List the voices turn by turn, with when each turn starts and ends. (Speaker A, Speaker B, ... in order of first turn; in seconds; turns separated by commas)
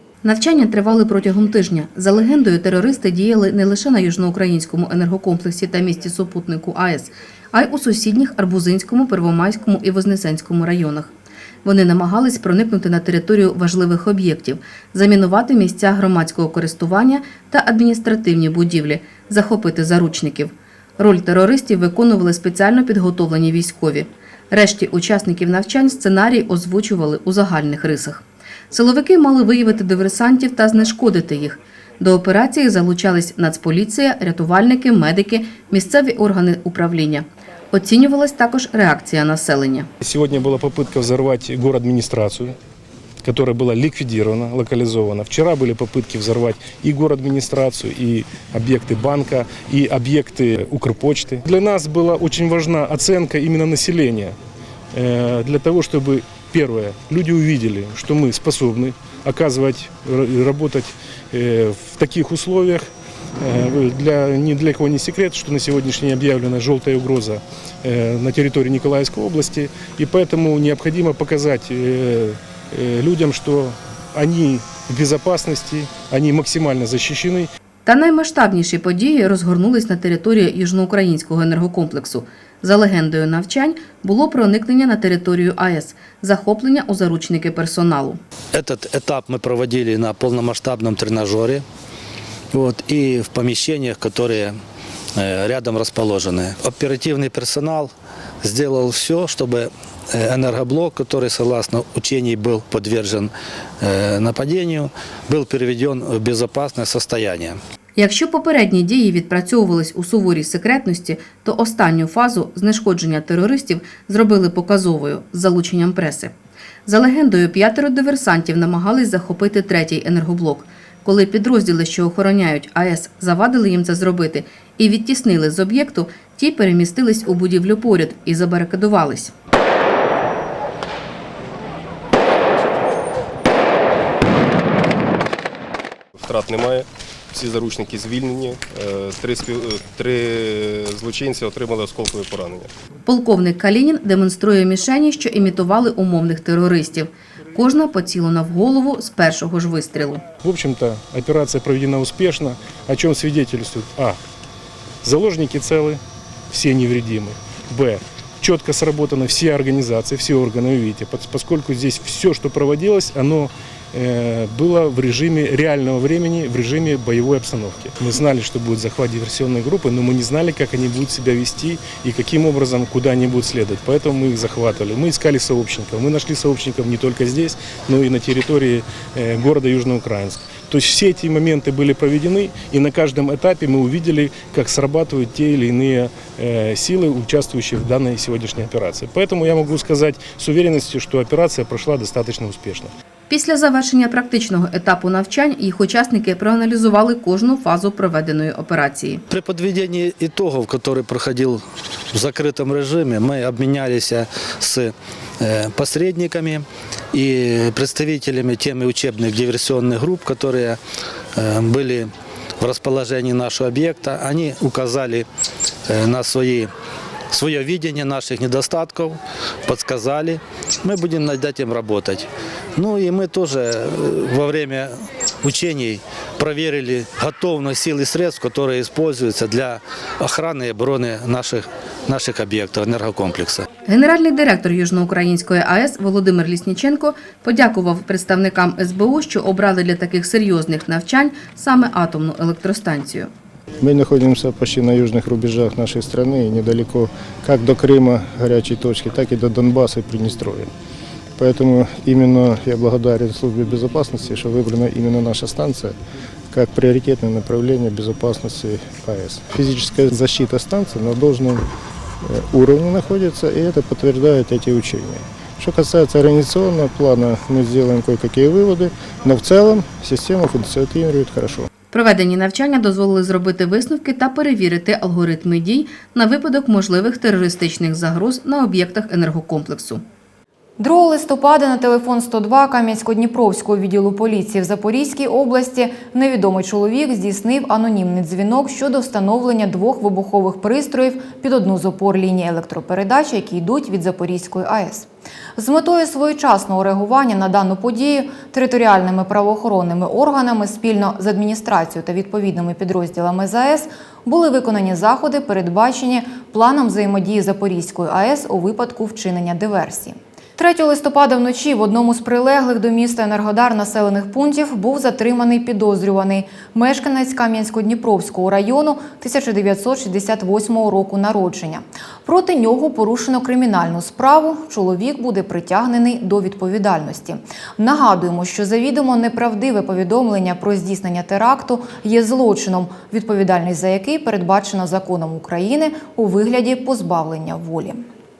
Speaker A: 0.2-11.1, Speaker A: 11.6-39.9, Speaker B: 40.0-42.5, Speaker B: 43.2-54.4, Speaker B: 54.9-62.9, Speaker B: 63.4-77.5, Speaker A: 77.8-88.2, Speaker C: 88.5-91.6, Speaker C: 92.5-94.6, Speaker C: 95.1-107.6, Speaker A: 108.0-116.3, Speaker A: 116.8-129.3, Speaker D: 136.2-142.7, Speaker A: 143.1-150.2, Speaker B: 150.4-154.2, Speaker B: 155.0-192.9, Speaker A: 193.3-199.2, Speaker C: 199.3-210.8, Speaker C: 211.3-215.3, Speaker C: 215.9-216.7, Speaker C: 217.3-233.7, Speaker A: 233.8-243.3, Speaker E: 243.8-250.7, Speaker E: 251.4-255.9, Speaker E: 256.5-261.6, Speaker E: 262.2-271.7, Speaker A: 271.9-280.0, Speaker F: 280.8-338.0